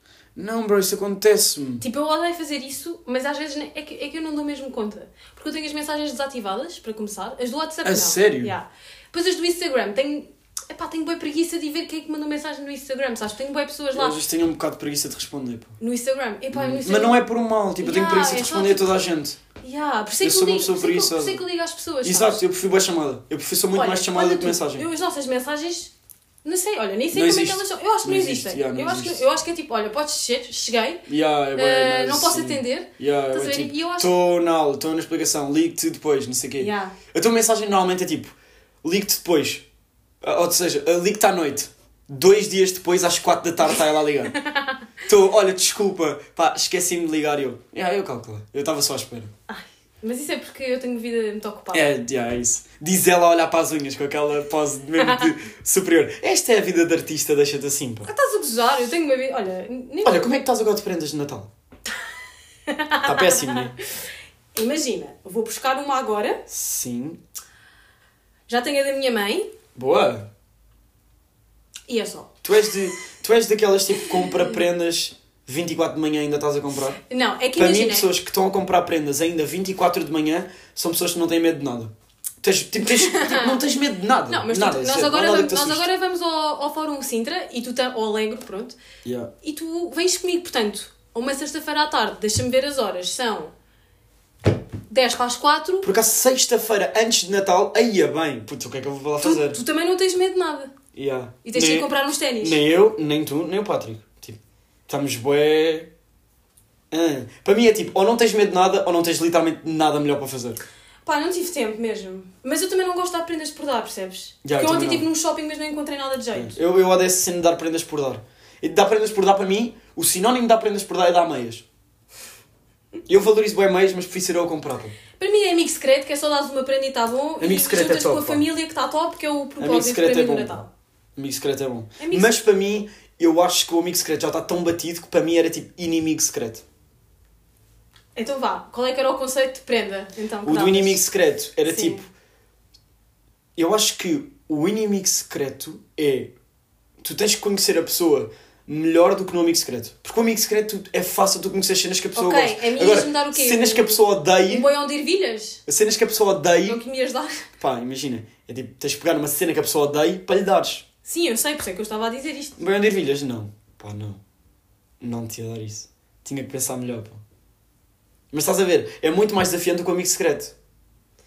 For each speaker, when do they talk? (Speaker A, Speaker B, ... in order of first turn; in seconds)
Speaker A: 0.4-1.9, 7.8-8.5, 13.9-15.8, 16.5-19.4, 20.2-21.4, 22.0-24.9, 27.1-29.2, 31.1-39.6, 40.2-44.4, 45.0-49.3, 51.7-58.1, 60.0-61.5, 63.0-63.7, 66.5-67.2, 69.8-70.3, 72.4-77.0, 77.6-85.8, 89.0-89.3, 95.8-99.6, 100.9-105.9, 106.9-110.6, 114.4-115.1, 116.3-121.7, 123.1-125.0, 127.4-128.4, 129.6-130.6, 131.2-136.6, 140.4-142.1, 143.6-146.3, 147.0-154.7, 155.7-156.8, 157.6-160.9, 162.6-164.2, 165.0-167.2, 168.3-170.6
Speaker B: 1.8-14.2, 15.8-17.2, 17.8-18.9, 19.6-22.4, 23.7-25.9, 26.4-34.1, 36.6-37.0, 44.4-44.8, 49.5-52.0, 58.1-60.4, 62.7-63.7, 64.5-66.4, 68.5-69.5, 71.9-72.3, 74.2-74.5, 77.1-78.1, 82.8-83.7, 84.3-88.8, 89.4-93.5, 94.9-95.9, 99.2-100.7, 101.5-102.6, 111.0-116.6, 125.2-130.7, 132.0-132.3, 138.2-141.0, 141.7-142.0, 152.2-155.6, 156.7-157.4, 161.1-162.6